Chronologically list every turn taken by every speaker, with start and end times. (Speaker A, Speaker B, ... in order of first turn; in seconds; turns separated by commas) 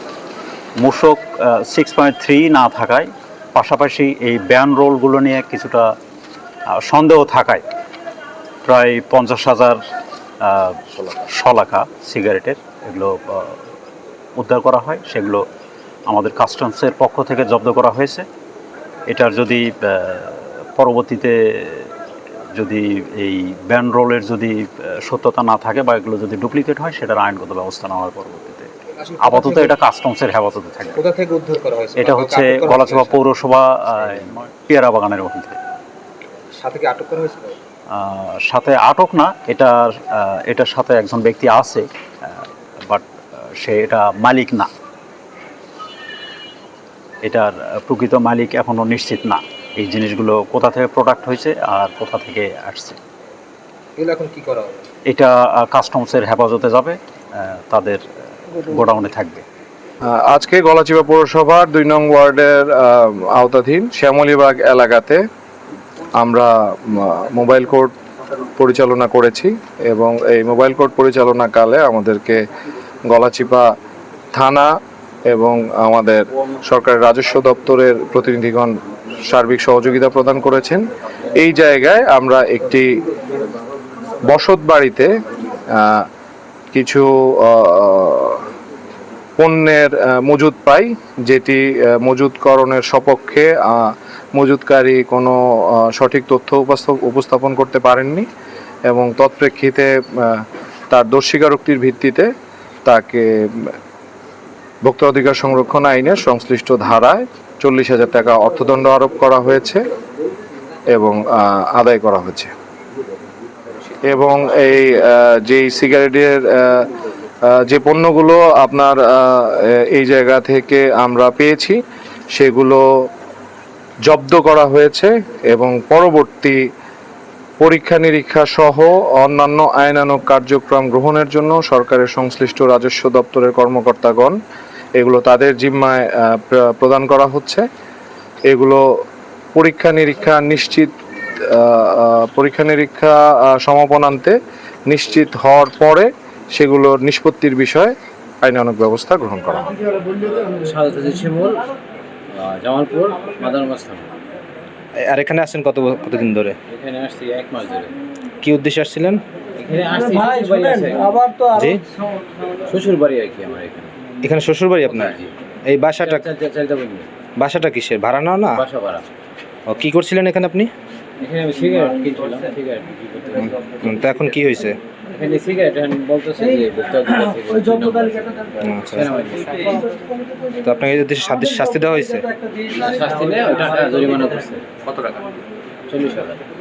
Speaker A: 0.8-5.9, Speaker A: 6.7-7.6, Speaker A: 8.6-9.8, Speaker A: 10.4-13.6, Speaker A: 14.3-15.4, Speaker A: 16.1-18.3, Speaker A: 19.1-21.9, Speaker A: 22.5-31.0, Speaker B: 28.9-29.8, Speaker B: 30.9-33.2, Speaker A: 32.0-35.6, Speaker B: 36.5-37.6, Speaker A: 37.9-43.0, Speaker A: 43.6-44.7, Speaker A: 47.2-53.0, Speaker B: 54.0-54.8, Speaker A: 55.1-59.5, Speaker C: 60.0-65.2, Speaker C: 66.2-67.9, Speaker C: 68.6-72.5, Speaker C: 73.1-73.7, Speaker C: 74.3-74.7, Speaker C: 75.2-83.0, Speaker C: 84.2-85.1, Speaker C: 85.7-86.1, Speaker C: 86.7-88.4, Speaker C: 89.4-98.3, Speaker C: 98.9-102.3, Speaker C: 102.8-103.7, Speaker C: 104.8-109.8, Speaker C: 110.9-112.5, Speaker C: 114.0-116.9, Speaker C: 117.4-121.8, Speaker C: 122.3-122.8, Speaker C: 124.0-126.6, Speaker C: 127.6-134.4, Speaker C: 135.0-137.7, Speaker C: 138.5-138.8, Speaker C: 139.6-140.9, Speaker C: 141.4-149.8, Speaker D: 150.4-151.7, Speaker D: 152.3-154.1, Speaker E: 155.0-156.6, Speaker D: 156.7-157.9, Speaker E: 158.4-159.2, Speaker D: 159.6-161.5, Speaker E: 161.5-161.8, Speaker D: 162.7-164.0, Speaker E: 164.2-166.2, Speaker D: 164.9-165.3, Speaker D: 166.0-167.1, Speaker E: 167.4-168.6, Speaker D: 168.5-169.1, Speaker E: 169.7-170.7, Speaker D: 171.2-173.7, Speaker E: 173.8-174.8, Speaker D: 175.1-179.9, Speaker E: 178.6-179.1, Speaker E: 180.5-182.3, Speaker D: 182.6-185.2, Speaker D: 185.9-186.4